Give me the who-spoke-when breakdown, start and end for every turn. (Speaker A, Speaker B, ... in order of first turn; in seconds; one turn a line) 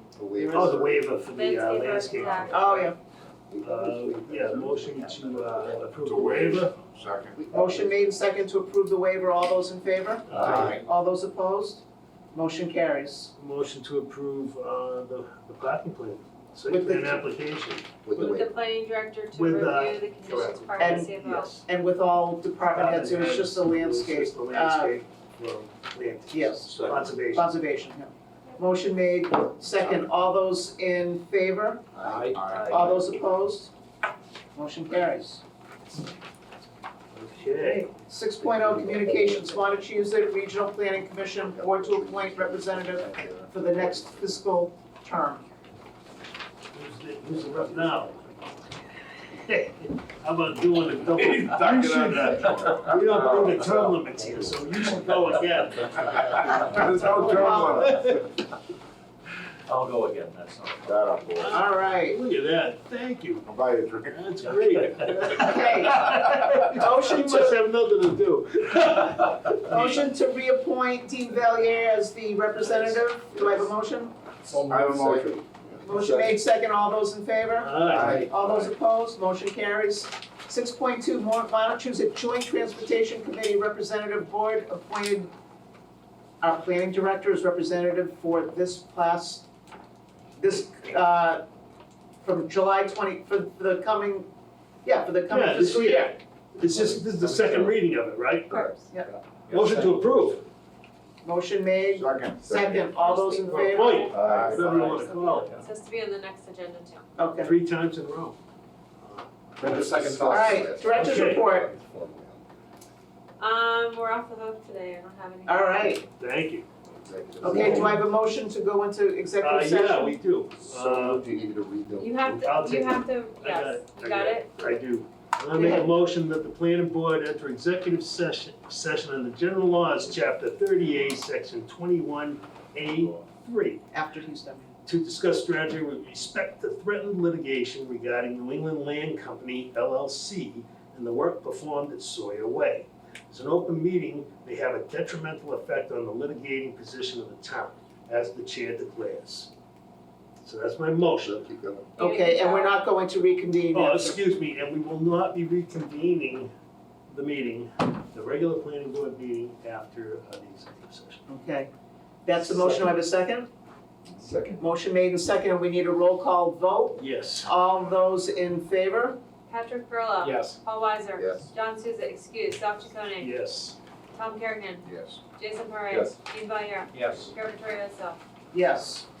Speaker A: 0.1-1.2
Speaker B: 0.4-2.9
Speaker C: 1.3-2.7
Speaker D: 2.5-3.0
Speaker A: 3.5-8.1
Speaker B: 3.6-6.8
Speaker D: 7.5-13.3
Speaker B: 10.3-10.8
Speaker A: 10.4-10.7
Speaker B: 13.4-17.9
Speaker D: 16.7-17.3
Speaker A: 18.0-18.6
Speaker C: 18.1-21.5
Speaker B: 19.3-21.6
Speaker D: 20.8-25.0
Speaker B: 22.7-27.5
Speaker D: 26.3-31.9
Speaker A: 31.9-33.1
Speaker E: 32.0-32.4
Speaker B: 32.5-33.0
Speaker D: 32.6-33.7
Speaker D: 34.5-35.4
Speaker B: 37.1-37.9
Speaker D: 37.5-45.4
Speaker A: 38.4-39.8
Speaker A: 41.4-44.3
Speaker B: 46.7-48.2
Speaker A: 47.5-47.9
Speaker B: 49.3-58.2
Speaker A: 51.1-54.6
Speaker A: 56.1-58.2
Speaker D: 56.8-57.9
Speaker E: 59.7-61.2
Speaker A: 60.8-61.6
Speaker B: 61.4-63.5
Speaker D: 61.5-62.2
Speaker A: 63.5-64.2
Speaker B: 64.1-70.1
Speaker D: 65.1-67.6
Speaker D: 69.4-74.1
Speaker E: 74.4-75.4
Speaker A: 74.7-76.4
Speaker D: 75.8-85.3
Speaker B: 77.6-78.2
Speaker A: 77.8-78.7
Speaker D: 86.4-89.5
Speaker D: 90.4-91.4
Speaker D: 92.2-94.3
Speaker D: 94.8-96.2
Speaker B: 95.3-98.7
Speaker A: 96.8-97.6
Speaker C: 98.5-98.8
Speaker E: 99.5-100.0
Speaker B: 99.5-100.4
Speaker D: 101.2-104.2
Speaker A: 101.9-102.9
Speaker C: 103.0-104.2
Speaker B: 103.4-105.5
Speaker A: 104.1-104.7
Speaker E: 104.1-105.7
Speaker C: 104.8-107.2
Speaker D: 107.2-107.5
Speaker B: 107.4-108.4
Speaker B: 109.0-110.0
Speaker A: 109.6-112.4
Speaker D: 110.3-111.7
Speaker B: 110.9-111.5
Speaker C: 113.4-116.0
Speaker D: 115.5-116.0
Speaker B: 116.2-116.7
Speaker A: 116.9-118.0
Speaker D: 117.4-120.2
Speaker B: 119.4-121.2
Speaker A: 120.6-122.3
Speaker C: 122.0-124.5
Speaker B: 122.2-133.8
Speaker D: 125.5-125.9
Speaker D: 133.9-134.7
Speaker B: 134.8-149.5
Speaker B: 150.4-151.5
Speaker A: 151.2-151.9
Speaker C: 151.9-152.8
Speaker D: 152.0-154.2
Speaker B: 153.7-156.5
Speaker B: 157.1-161.2
Speaker D: 161.3-161.7
Speaker D: 162.2-163.5
Speaker A: 164.2-164.6
Speaker D: 164.6-169.2
Speaker B: 167.0-167.5
Speaker C: 169.5-173.3
Speaker E: 170.2-170.6
Speaker A: 171.2-171.5
Speaker B: 173.2-173.8
Speaker C: 174.1-178.2
Speaker A: 174.8-175.2
Speaker A: 175.9-176.2
Speaker E: 176.9-177.3
Speaker D: 178.5-179.1